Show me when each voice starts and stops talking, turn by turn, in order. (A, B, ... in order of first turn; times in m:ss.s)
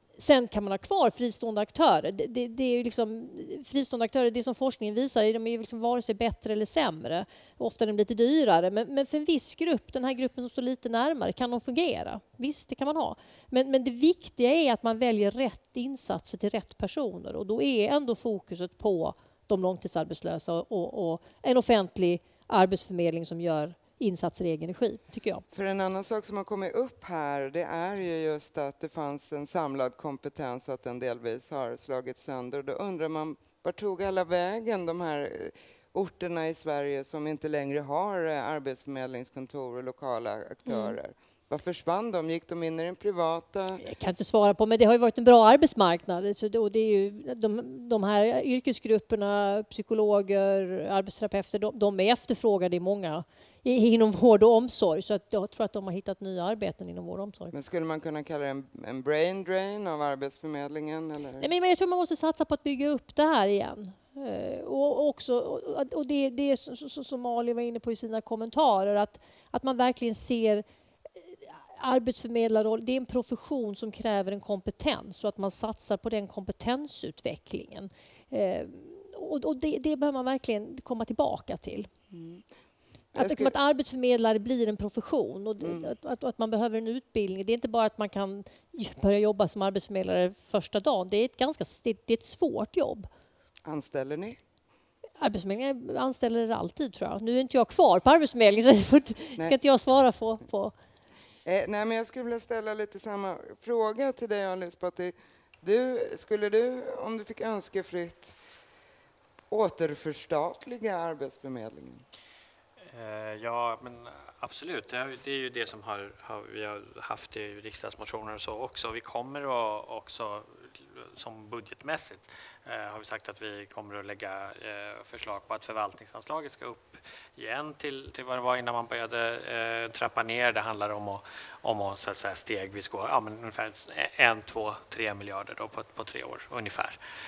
0:00.2-0:25.4 A
0:25.5-0:43.8 B
0:40.7-0:41.0 A
0:43.8-0:57.5 A
0:57.5-1:01.5 B
1:01.4-1:10.6 A
1:11.8-1:21.9 A
1:22.1-1:22.5 B
1:23.1-1:23.5 B
1:23.2-1:33.1 A
1:25.6-1:25.9 B
1:33.7-1:34.4 B
1:35.2-1:40.8 A
1:41.4-1:48.4 B
1:49.5-1:52.0 B
1:52.9-2:17.0 C